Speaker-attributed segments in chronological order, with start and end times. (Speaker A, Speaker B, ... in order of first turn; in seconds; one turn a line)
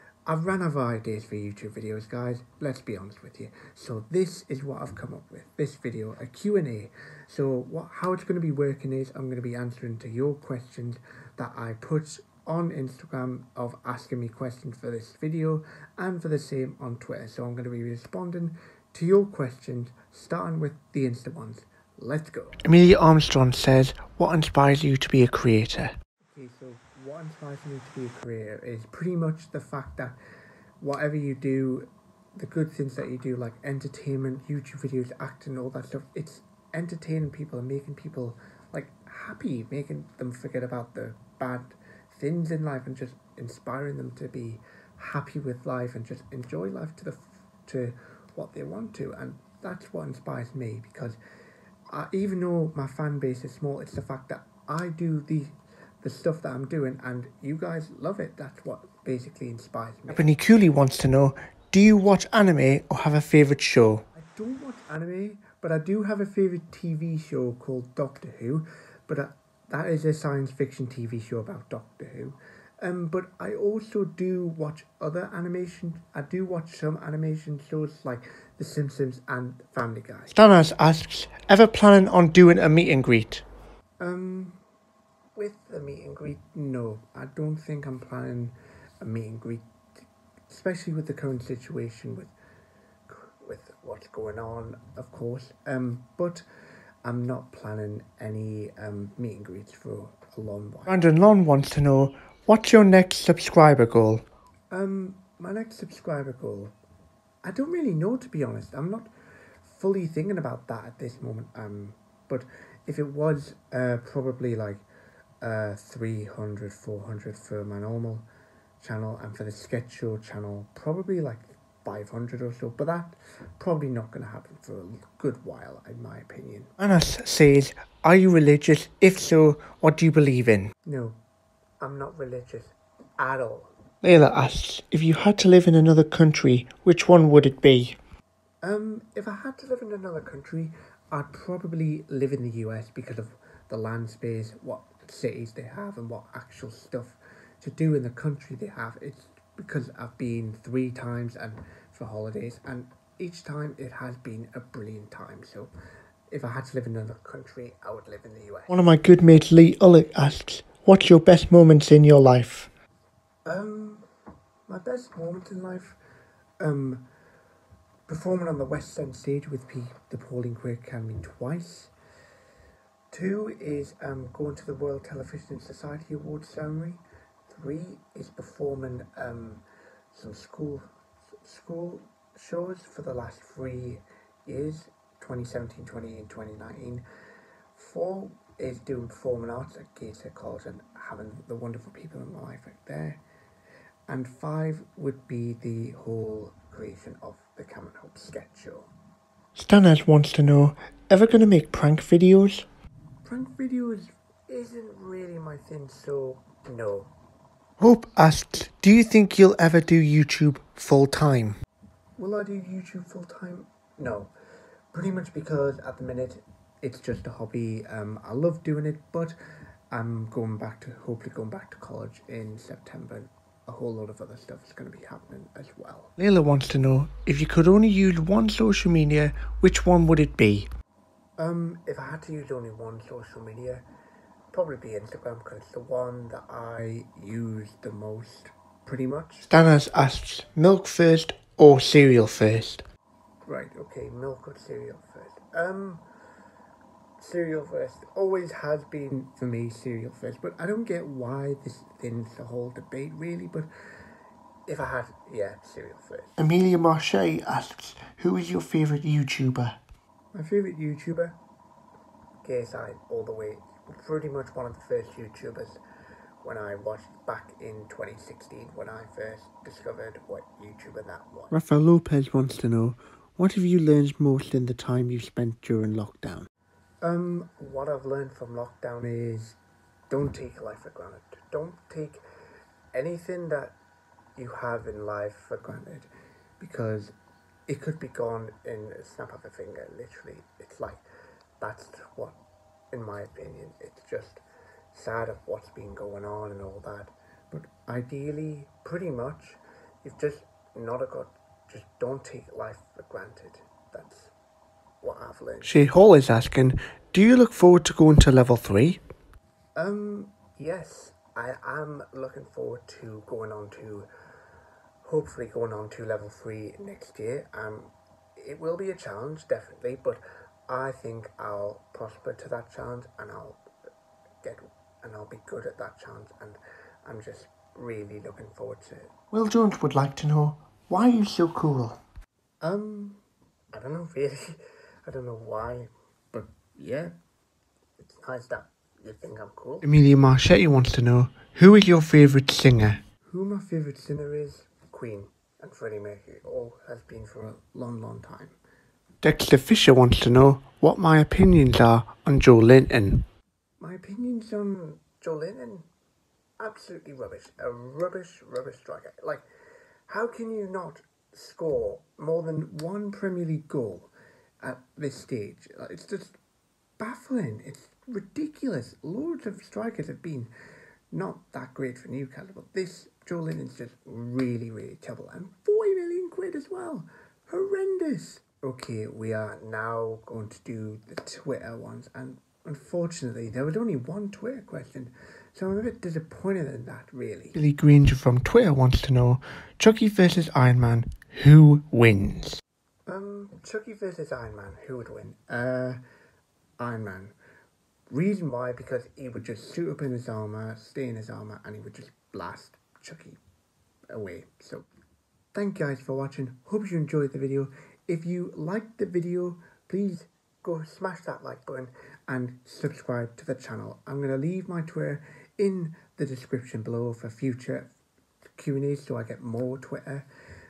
Speaker A: 0.3-22.6
Speaker B: 22.6-25.9
Speaker A: 26.2-30.1
Speaker A: 30.8-51.2
Speaker A: 51.9-60.2
Speaker B: 60.1-64.0
Speaker A: 64.1-80.4
Speaker B: 80.3-83.4
Speaker A: 84.0-84.6
Speaker A: 85.4-89.6
Speaker A: 90.5-92.3
Speaker A: 93.1-96.5
Speaker A: 97.0-101.0
Speaker B: 100.9-104.2
Speaker A: 104.7-106.7
Speaker A: 107.4-109.1
Speaker A: 109.6-114.8
Speaker A: 115.4-118.3
Speaker A: 118.8-126.7
Speaker B: 126.8-130.7
Speaker A: 130.8-131.2
Speaker A: 131.8-133.7
Speaker B: 134.0-138.0
Speaker A: 138.6-155.7
Speaker A: 156.3-158.7
Speaker B: 158.7-162.7
Speaker A: 163.5-164.1
Speaker A: 164.7-166.0
Speaker A: 166.6-167.1
Speaker A: 168.1-171.9
Speaker A: 173.1-180.8
Speaker A: 181.4-187.0
Speaker A: 187.8-193.2
Speaker A: 194.1-198.9
Speaker B: 199.6-202.7
Speaker A: 203.2-207.1
Speaker B: 207.8-211.6
Speaker A: 212.2-214.3
Speaker A: 214.9-219.4
Speaker A: 219.9-226.1
Speaker B: 226.2-230.7
Speaker A: 231.4-233.8
Speaker A: 234.5-239.5
Speaker B: 239.5-242.8
Speaker A: 243.5-246.0
Speaker A: 247.2-253.7
Speaker A: 254.7-256.3
Speaker B: 256.4-259.8
Speaker A: 260.3-261.4
Speaker A: 262.4-265.8
Speaker A: 266.4-271.7
Speaker B: 271.7-272.9
Speaker A: 272.2-272.6
Speaker B: 273.6-275.1
Speaker A: 274.3-276.4
Speaker A: 277.0-279.6
Speaker A: 280.1-282.2
Speaker A: 282.9-283.8
Speaker A: 284.4-286.1
Speaker A: 286.6-287.1
Speaker A: 287.7-291.0
Speaker A: 291.6-292.4
Speaker A: 292.9-304.3
Speaker A: 305.0-305.8
Speaker B: 305.6-309.0
Speaker A: 309.8-314.1
Speaker A: 315.0-323.6
Speaker A: 324.4-329.1
Speaker B: 329.3-332.0
Speaker A: 332.6-337.1
Speaker A: 338.0-339.9
Speaker B: 339.8-343.0
Speaker A: 343.2-348.6
Speaker B: 349.2-350.8
Speaker A: 350.7-353.1
Speaker B: 351.8-352.6
Speaker A: 353.8-355.9
Speaker A: 356.6-359.4
Speaker A: 360.1-364.1
Speaker A: 364.6-366.4
Speaker A: 367.0-370.5
Speaker A: 371.1-387.6
Speaker B: 387.6-392.6
Speaker A: 393.1-396.0
Speaker A: 396.8-397.3
Speaker A: 398.1-403.4
Speaker A: 404.1-404.9
Speaker A: 405.5-417.9
Speaker A: 418.6-420.3